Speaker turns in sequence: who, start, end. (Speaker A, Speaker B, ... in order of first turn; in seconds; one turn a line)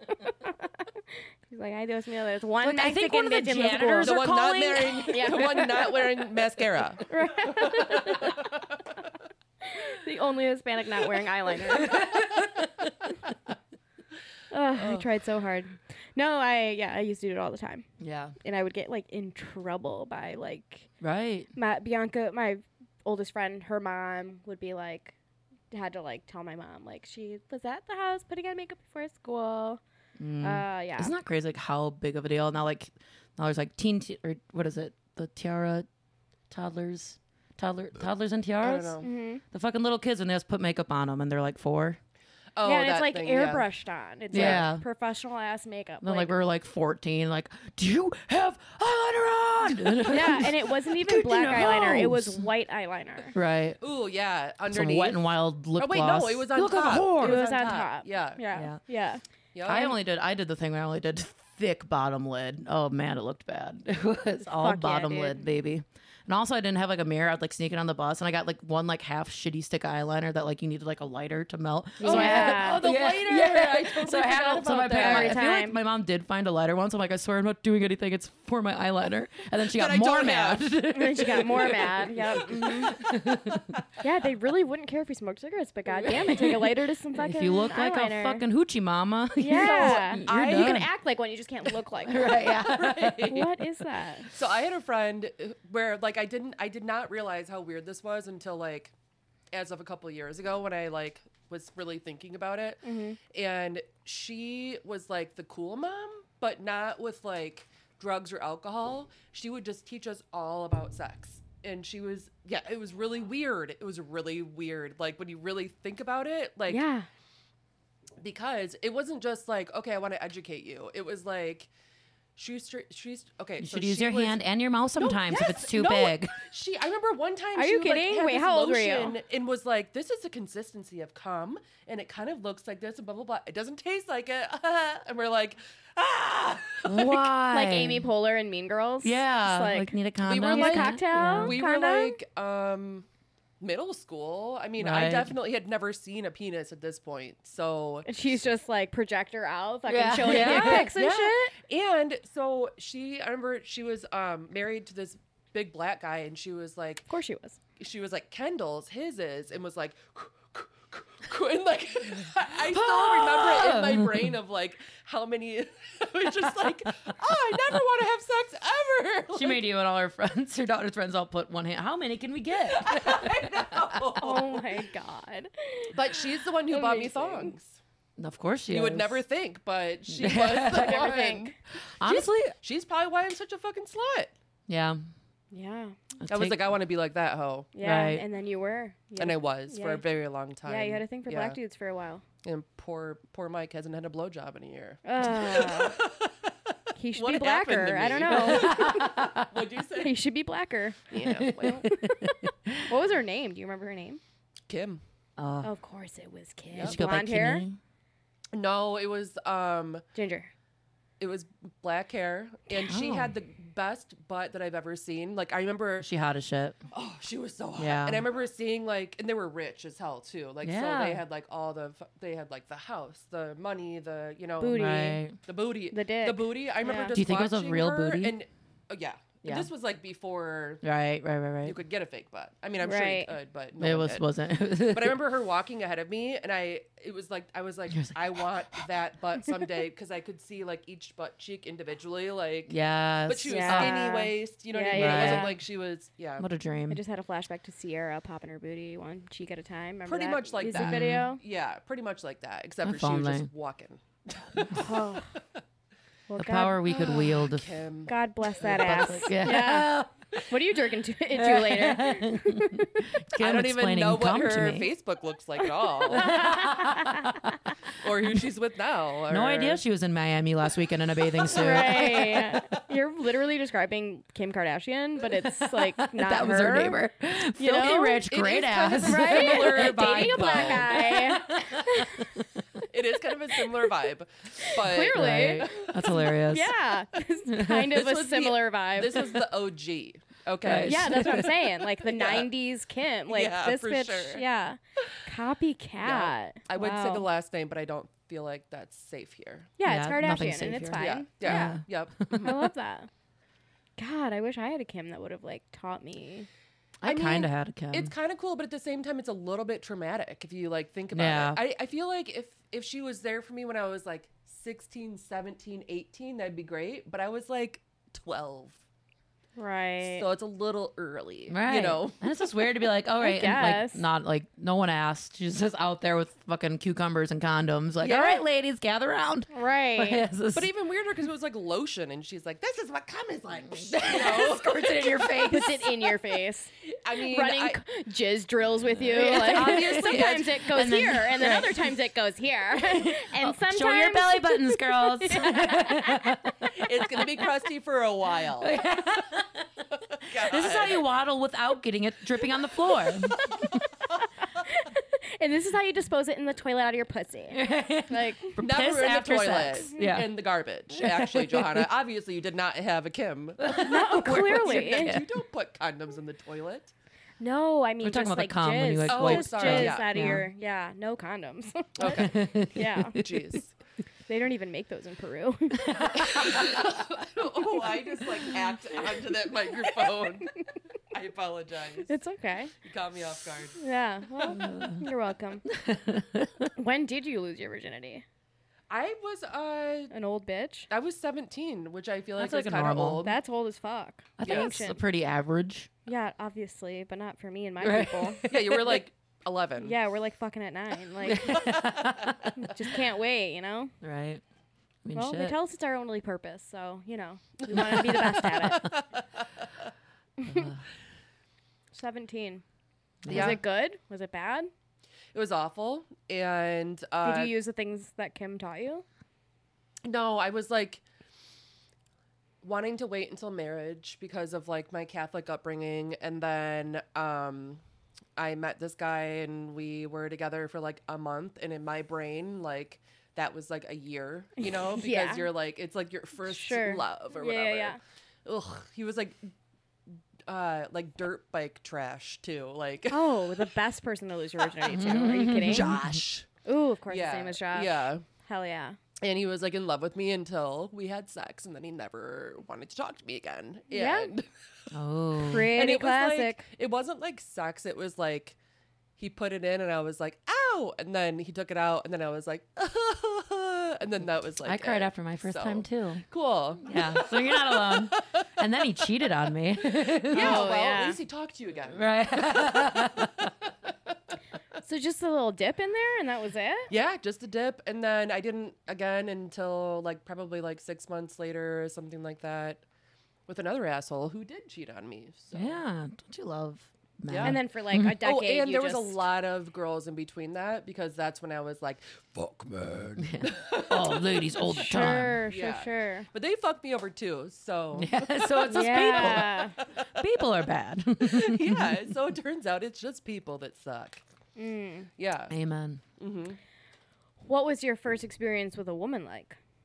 Speaker A: 0.2-0.7
Speaker A: 1.5-4.3
Speaker B: 2.6-5.7
Speaker C: 4.0-7.1
Speaker A: 4.9-6.0
Speaker A: 7.0-8.4
Speaker A: 9.6-12.1
Speaker B: 11.7-12.9
Speaker A: 14.5-17.9
Speaker C: 14.8-15.0
Speaker B: 18.0-18.4
Speaker A: 18.4-20.9
Speaker B: 21.0-21.5
Speaker A: 21.5-25.1
Speaker A: 25.7-29.8
Speaker B: 30.2-35.9
Speaker A: 30.4-31.1
Speaker B: 36.5-42.0
Speaker C: 38.6-39.1
Speaker A: 39.0-39.4
Speaker C: 42.5-43.6
Speaker A: 42.6-46.3
Speaker C: 44.3-44.6
Speaker B: 44.3-44.8
Speaker B: 46.0-52.4
Speaker A: 50.1-53.3
Speaker B: 53.3-53.8
Speaker C: 53.8-58.4
Speaker B: 54.7-57.5
Speaker A: 57.2-59.9
Speaker B: 58.5-58.8
Speaker C: 59.5-59.9
Speaker B: 59.6-83.7
Speaker A: 64.5-65.5
Speaker A: 72.0-72.8
Speaker C: 72.0-75.4
Speaker A: 74.9-75.8
Speaker C: 79.7-80.7
Speaker A: 80.9-83.0
Speaker A: 84.0-88.4
Speaker B: 86.0-90.9
Speaker A: 89.4-92.4
Speaker C: 89.5-90.9
Speaker B: 92.0-93.4
Speaker C: 92.2-93.5
Speaker A: 93.3-94.3
Speaker C: 94.3-98.9
Speaker C: 99.5-116.8
Speaker A: 102.8-103.2
Speaker A: 116.7-117.1
Speaker C: 118.2-121.7
Speaker C: 122.3-124.4
Speaker B: 123.6-126.3
Speaker C: 125.0-137.3
Speaker A: 127.5-129.2
Speaker B: 136.8-138.1
Speaker A: 137.4-142.2
Speaker B: 139.0-141.6
Speaker C: 140.2-143.1
Speaker C: 143.6-148.2
Speaker B: 144.8-145.3
Speaker A: 148.1-151.5
Speaker B: 149.9-150.9
Speaker C: 150.2-157.1
Speaker A: 157.1-157.6
Speaker C: 157.8-169.6
Speaker B: 162.6-164.3
Speaker B: 167.0-167.8
Speaker B: 169.3-174.5
Speaker C: 172.7-174.6
Speaker A: 174.2-177.5
Speaker C: 175.9-177.8
Speaker B: 178.2-179.2
Speaker C: 178.7-184.3
Speaker B: 180.1-181.1
Speaker A: 180.7-181.5
Speaker B: 182.0-182.5
Speaker B: 184.7-185.0
Speaker A: 185.5-185.9
Speaker B: 186.2-186.7
Speaker C: 186.3-187.7
Speaker A: 187.7-190.0
Speaker B: 187.8-188.2
Speaker C: 189.2-191.6
Speaker A: 190.7-192.2
Speaker C: 192.4-196.5
Speaker A: 195.0-196.0
Speaker A: 196.9-199.1
Speaker C: 197.1-200.2
Speaker B: 198.3-199.5
Speaker A: 200.0-204.2
Speaker C: 201.1-201.9
Speaker B: 201.2-202.9
Speaker C: 204.7-205.0
Speaker B: 205.4-205.7
Speaker A: 205.6-207.6
Speaker B: 206.8-207.8
Speaker C: 208.5-210.0
Speaker A: 210.1-210.5
Speaker C: 211.2-216.1
Speaker B: 212.7-213.3
Speaker B: 216.0-216.8
Speaker C: 216.9-230.8
Speaker B: 217.8-218.3
Speaker B: 220.6-221.2
Speaker A: 224.6-225.2
Speaker B: 224.7-225.4
Speaker A: 225.9-227.1
Speaker B: 227.1-228.4
Speaker B: 229.4-229.7
Speaker B: 230.8-231.8
Speaker C: 231.6-234.2
Speaker A: 232.8-233.3
Speaker B: 233.8-235.2
Speaker C: 234.8-242.8
Speaker B: 237.9-238.5
Speaker B: 242.7-244.1
Speaker C: 243.3-246.5
Speaker A: 243.5-245.6
Speaker B: 244.9-245.6
Speaker B: 246.4-247.0
Speaker A: 246.9-251.4
Speaker C: 250.1-255.1
Speaker B: 250.7-251.3
Speaker B: 252.8-253.5
Speaker A: 254.7-255.3
Speaker A: 256.3-257.3
Speaker B: 256.4-257.8
Speaker C: 256.9-259.1
Speaker A: 258.1-263.0
Speaker B: 258.6-260.1
Speaker B: 261.3-264.9
Speaker C: 263.4-266.5
Speaker B: 266.1-267.5
Speaker A: 266.2-267.4
Speaker C: 268.0-269.8
Speaker B: 269.3-272.4
Speaker A: 271.5-277.0
Speaker C: 271.6-272.4
Speaker B: 275.6-282.6
Speaker A: 277.6-278.2
Speaker C: 277.9-281.2
Speaker A: 279.0-282.3
Speaker C: 282.9-286.3
Speaker A: 284.6-289.4
Speaker B: 285.1-286.7
Speaker B: 287.5-287.9
Speaker C: 287.9-292.5
Speaker B: 290.6-291.5
Speaker A: 290.8-297.2
Speaker C: 293.3-294.4
Speaker C: 296.0-299.7
Speaker A: 299.8-301.8
Speaker B: 299.8-302.6
Speaker C: 300.9-302.6
Speaker A: 302.4-303.1
Speaker A: 304.0-306.5
Speaker B: 307.0-308.1
Speaker C: 307.0-318.8
Speaker B: 311.1-311.6
Speaker A: 319.6-320.2
Speaker C: 320.0-322.3
Speaker B: 321.5-330.7
Speaker A: 323.2-324.0
Speaker C: 328.0-328.4
Speaker A: 329.5-330.2
Speaker C: 330.5-335.4
Speaker B: 333.7-335.9
Speaker A: 335.5-346.4
Speaker C: 336.9-337.8
Speaker B: 339.0-341.9
Speaker C: 339.1-340.6
Speaker B: 342.7-346.7
Speaker C: 346.7-348.8
Speaker B: 348.6-353.8
Speaker C: 350.2-351.0
Speaker A: 354.6-358.6
Speaker B: 357.5-360.3
Speaker C: 358.6-366.9
Speaker B: 360.9-361.9
Speaker B: 363.6-365.3
Speaker A: 363.8-365.1
Speaker A: 367.4-373.2
Speaker B: 368.0-370.5
Speaker C: 369.1-370.3
Speaker C: 372.0-372.3
Speaker B: 372.0-373.4
Speaker C: 373.1-373.7
Speaker A: 374.3-376.2
Speaker B: 375.8-377.0
Speaker C: 376.1-380.5
Speaker C: 381.1-382.1
Speaker A: 382.1-382.7
Speaker C: 382.8-383.8
Speaker A: 383.8-385.6
Speaker B: 384.5-385.0
Speaker B: 385.7-386.7
Speaker A: 386.8-388.2
Speaker C: 388.9-390.1
Speaker A: 390.1-390.9
Speaker C: 390.9-393.4
Speaker B: 392.4-393.2
Speaker A: 393.2-395.0
Speaker B: 394.4-395.9
Speaker C: 394.4-394.8
Speaker A: 396.1-398.4
Speaker B: 397.8-399.0
Speaker C: 398.4-399.9
Speaker A: 399.8-401.7
Speaker B: 401.2-402.7
Speaker A: 402.6-403.9
Speaker B: 404.0-404.4
Speaker B: 405.0-405.6
Speaker A: 405.1-408.9
Speaker C: 407.6-409.4
Speaker A: 410.4-410.7
Speaker B: 410.4-410.8
Speaker A: 411.9-412.6
Speaker B: 413.2-413.6
Speaker C: 413.3-413.6
Speaker A: 413.3-414.7
Speaker C: 415.3-417.5
Speaker A: 417.2-419.0
Speaker C: 420.0-421.0
Speaker C: 422.6-427.8
Speaker C: 428.4-439.5
Speaker A: 434.6-435.5
Speaker A: 436.4-438.0
Speaker C: 440.5-443.6
Speaker A: 443.1-445.9
Speaker B: 444.8-446.2
Speaker C: 444.9-446.5
Speaker A: 446.6-449.0
Speaker C: 447.1-448.2
Speaker C: 449.2-454.5
Speaker A: 453.9-454.3
Speaker B: 454.9-455.7
Speaker A: 455.4-456.6
Speaker C: 455.6-458.6
Speaker C: 459.2-468.4
Speaker B: 464.6-466.2
Speaker B: 466.8-470.7
Speaker C: 470.2-473.2
Speaker A: 470.3-471.2
Speaker B: 471.9-473.5
Speaker A: 474.8-476.9
Speaker C: 476.9-482.8
Speaker C: 483.5-485.8
Speaker B: 485.5-488.1
Speaker C: 487.3-487.6
Speaker A: 487.4-489.2
Speaker C: 488.2-494.5
Speaker B: 493.2-495.4
Speaker A: 494.6-496.3
Speaker C: 495.5-500.2
Speaker B: 497.9-502.0
Speaker A: 498.7-499.8
Speaker C: 501.2-504.2
Speaker A: 504.6-505.1
Speaker C: 505.2-505.5
Speaker B: 505.5-506.0
Speaker C: 506.2-506.6
Speaker A: 507.4-509.6